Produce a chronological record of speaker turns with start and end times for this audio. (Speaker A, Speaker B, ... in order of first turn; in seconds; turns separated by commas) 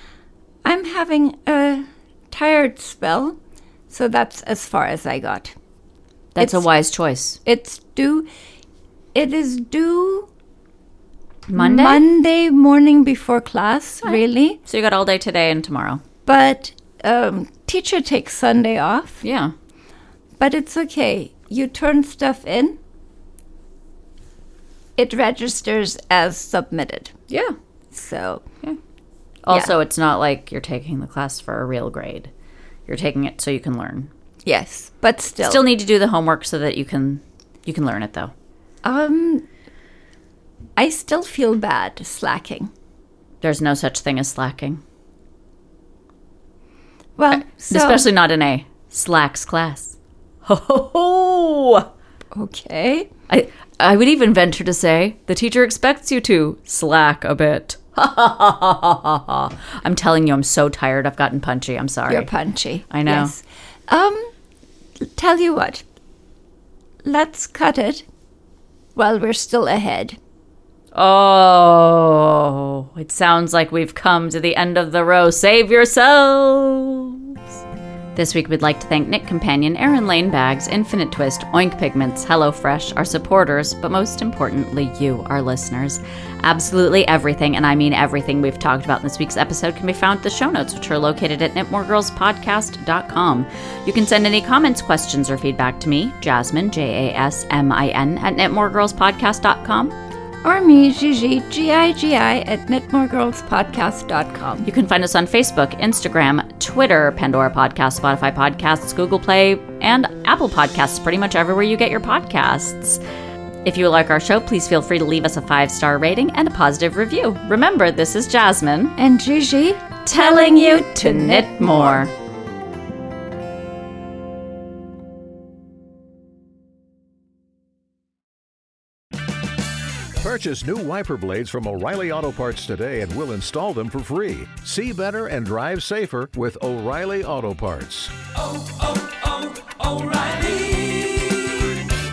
Speaker A: 0.6-3.4, Speaker A: 3.9-5.5, Speaker B: 6.3-7.4, Speaker A: 6.4-6.6, Speaker A: 7.5-8.3, Speaker A: 9.1-10.3, Speaker B: 11.5-12.0, Speaker A: 11.6-14.6, Speaker B: 14.0-16.0, Speaker A: 16.3-19.2, Speaker B: 19.2-19.5, Speaker A: 20.4-22.8, Speaker A: 25.0-27.1, Speaker B: 27.3-27.6, Speaker A: 27.9-28.4, Speaker B: 29.4-32.3, Speaker B: 32.9-34.1, Speaker A: 34.5-35.6, Speaker B: 35.4-38.3, Speaker A: 38.8-39.5, Speaker A: 40.8-42.7, Speaker B: 43.4-44.8, Speaker A: 47.2-48.0, Speaker B: 47.3-51.9, Speaker A: 52.3-53.1, Speaker B: 53.3-62.3, Speaker A: 62.1-64.3, Speaker B: 62.9-63.3, Speaker A: 65.0-65.8, Speaker A: 67.0-68.0, Speaker A: 69.0-70.2, Speaker B: 70.9-77.6, Speaker B: 78.1-100.0, Speaker A: 100.4-104.7, Speaker B: 104.6-113.0, Speaker B: 113.6-119.0, Speaker A: 119.0-122.1, Speaker B: 120.0-122.1, Speaker C: 130.2-141.8